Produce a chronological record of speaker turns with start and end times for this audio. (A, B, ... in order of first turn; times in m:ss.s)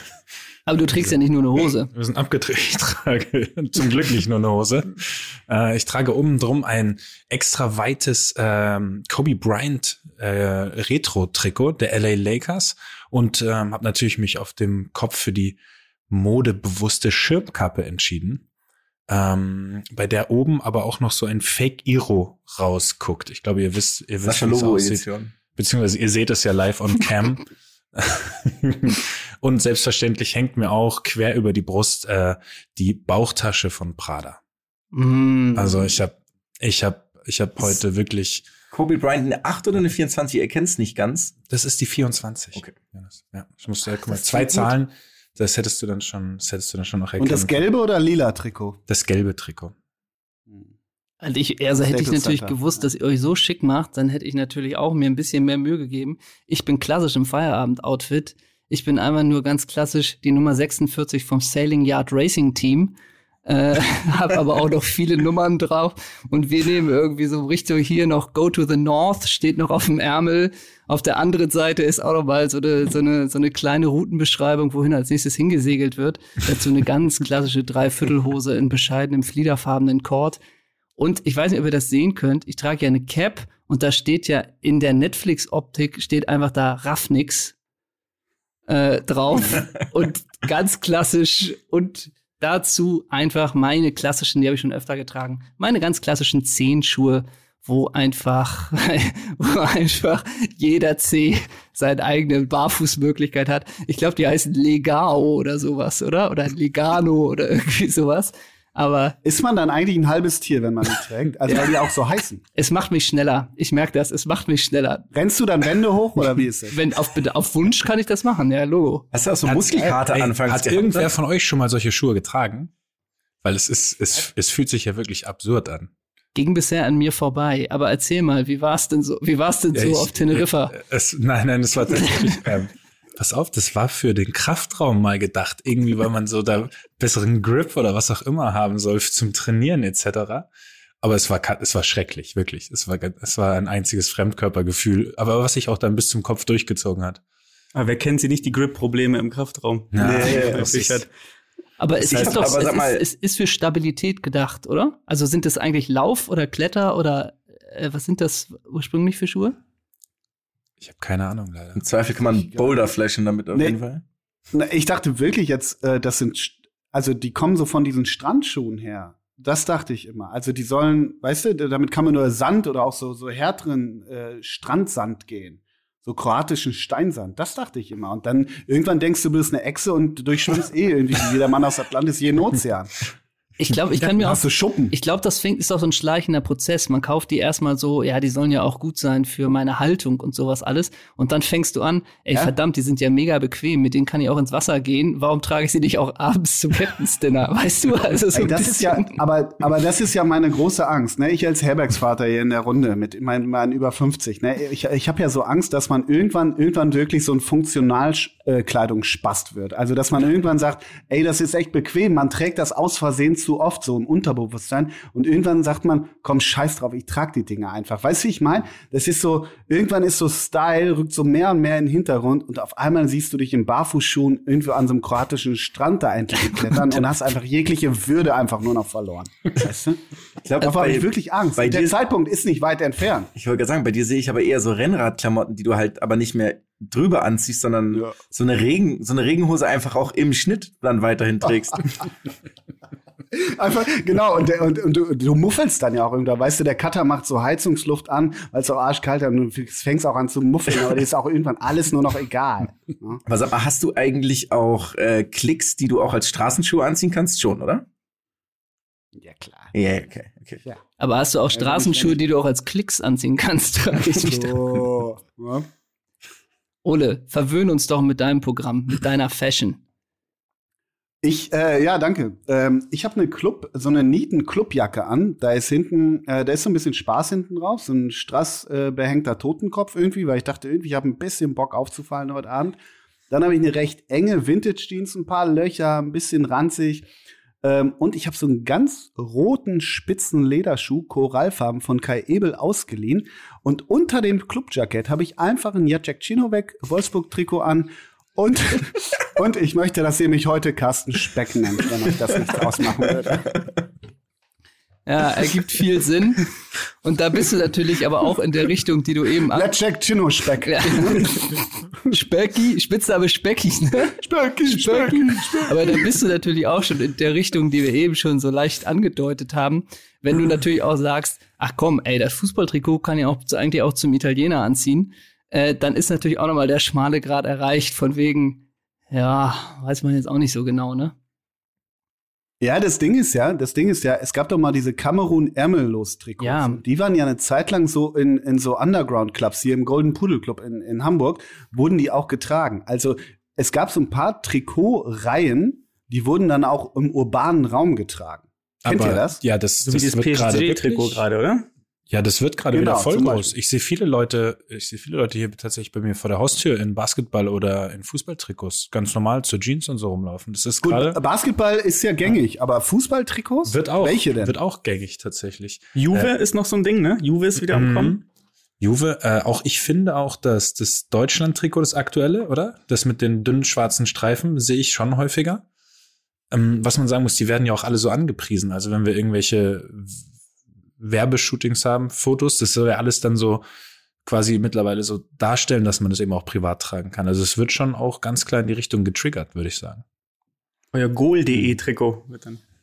0:00.7-0:01.9 A
0:01.9-0:15.6 B
0:16.1-0:18.4 B
0:19.1-0:27.4 B
0:24.2-0:25.3 C
0:28.0-0:34.4 B
0:34.9-0:35.8 A
0:35.6-0:38.5 B
0:38.7-0:41.4 C
0:41.5-0:47.6 B
0:44.1-0:44.6 D
0:47.2-0:48.8 D
0:48.9-0:49.7 B
0:51.2-1:03.0 A
0:51.9-0:52.6 D
1:03.5-1:20.4 A
1:21.0-1:27.6 A
1:28.7-1:49.2 A
1:49.2-1:52.4 D
1:52.6-1:55.1 A
1:55.1-1:56.8 D
1:56.7-1:59.1 A
1:59.1-2:01.1 C
1:59.5-2:00.0 D
2:00.1-2:02.7 B
2:03.4-2:05.9 B
2:06.4-2:10.8 A
2:09.8-2:20.5 B
2:21.0-2:27.2 B
2:27.7-2:31.1 E
2:29.9-2:31.0 B
2:30.0-2:30.6 D
2:31.8-2:39.6 A
2:32.0-2:33.0 C
2:32.1-2:32.6 B
2:40.8-2:41.8 B
2:41.8-2:44.0 C
2:44.5-3:03.0 D
3:03.6-3:19.2 A
3:04.0-3:05.0 D
3:18.3-3:50.0 D
3:50.4-3:51.9 C
3:50.6-3:53.3 D
3:53.4-4:02.1 C
4:03.3-4:13.2 D
4:13.3-4:17.8 C
4:19.2-4:19.7 D
4:19.7-4:20.6 C
4:21.0-4:24.6 A
4:21.5-4:22.2 D
4:24.0-4:25.7 D
4:26.8-4:29.8 A
4:31.2-4:42.8 D
4:43.3-4:47.1 D
4:47.6-5:03.5 D
5:05.1-5:06.4 A
5:07.0-5:09.7 A
5:09.5-5:11.4 D
5:10.7-5:11.5 A
5:12.1-5:31.1 A
5:14.2-5:16.0 D
5:32.6-5:49.4 D
5:36.4-5:36.8 A
5:48.8-5:51.2 B
5:49.8-5:51.7 E
5:52.1-6:01.2 B
5:52.7-5:53.5 D
6:00.8-6:04.6 D
6:03.7-6:06.3 B
6:06.0-6:08.1 E
6:07.6-6:08.2 B
6:08.8-6:15.6 B
6:16.5-6:20.1 B
6:21.0-6:23.6 B
6:24.2-6:30.0 B
6:30.9-6:32.6 E